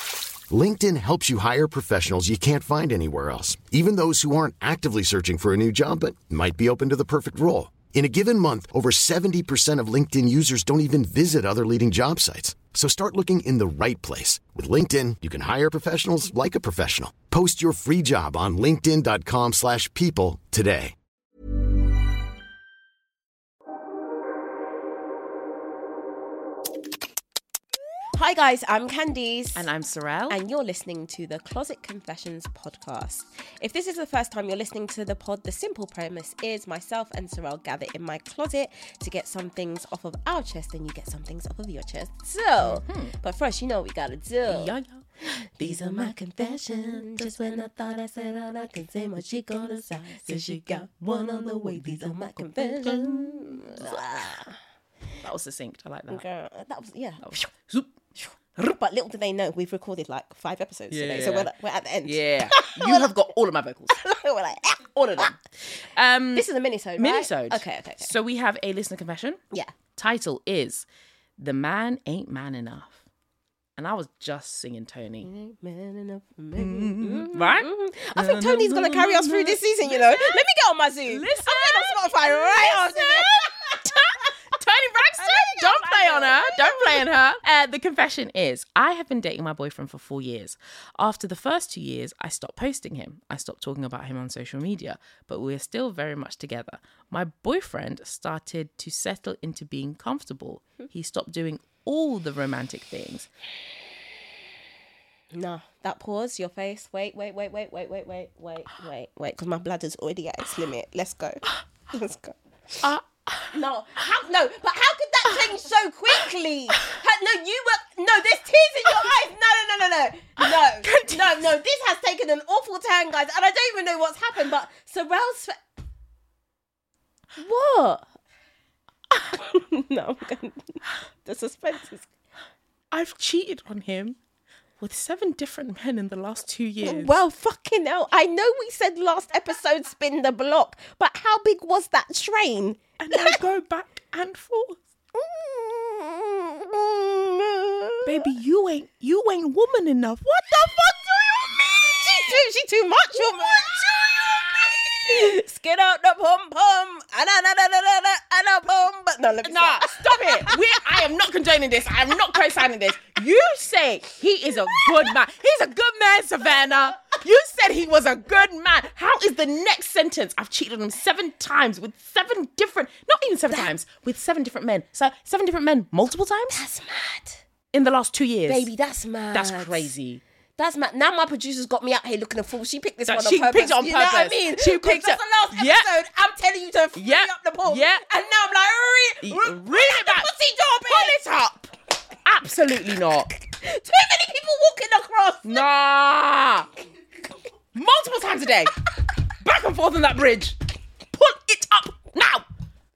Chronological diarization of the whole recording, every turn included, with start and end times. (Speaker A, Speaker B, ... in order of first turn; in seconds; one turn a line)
Speaker A: 0.5-20.9
Speaker B: 28.2-29.7
Speaker C: 29.6-30.4
Speaker B: 30.3-44.7
Speaker C: 42.6-43.1
Speaker C: 44.5-45.0
Speaker B: 45.2-54.6
Speaker C: 45.6-46.1
Speaker C: 50.1-54.0
Speaker C: 55.2-56.2
Speaker B: 56.1-57.4
Speaker C: 57.2-57.9
Speaker B: 58.2-63.1
Speaker C: 60.9-61.5
Speaker C: 62.0-64.0
Speaker B: 63.9-65.3
Speaker C: 64.9-66.5
Speaker B: 66.3-68.1
Speaker C: 67.0-69.4
Speaker C: 70.0-70.9
Speaker C: 71.4-73.0
Speaker C: 73.8-75.3
Speaker B: 75.2-84.1
Speaker C: 76.6-80.4
Speaker C: 81.1-103.3
Speaker B: 85.2-87.1
Speaker B: 105.3-112.9
Speaker C: 112.8-113.5
Speaker B: 113.5-125.5
Speaker C: 120.4-121.4
Speaker B: 127.4-128.1
Speaker B: 129.3-132.1
Speaker C: 132.9-134.2
Speaker C: 134.8-137.2
Speaker B: 136.8-143.4
Speaker C: 143.0-144.8
Speaker B: 145.1-148.2
Speaker C: 148.1-152.4
Speaker B: 151.9-161.0
Speaker C: 153.1-154.8
Speaker C: 159.4-176.6
Speaker B: 164.7-165.1
Speaker B: 176.5-177.4
Speaker C: 177.7-178.7
Speaker B: 178.5-179.9
Speaker C: 179.3-180.2
Speaker B: 180.6-191.2
Speaker C: 183.1-185.9
Speaker C: 187.0-188.0
Speaker C: 189.2-190.3
Speaker C: 190.9-191.7
Speaker C: 192.2-193.3
Speaker B: 193.3-195.7
Speaker C: 195.4-196.7
Speaker C: 197.7-198.7
Speaker C: 199.3-200.6
Speaker C: 201.1-202.4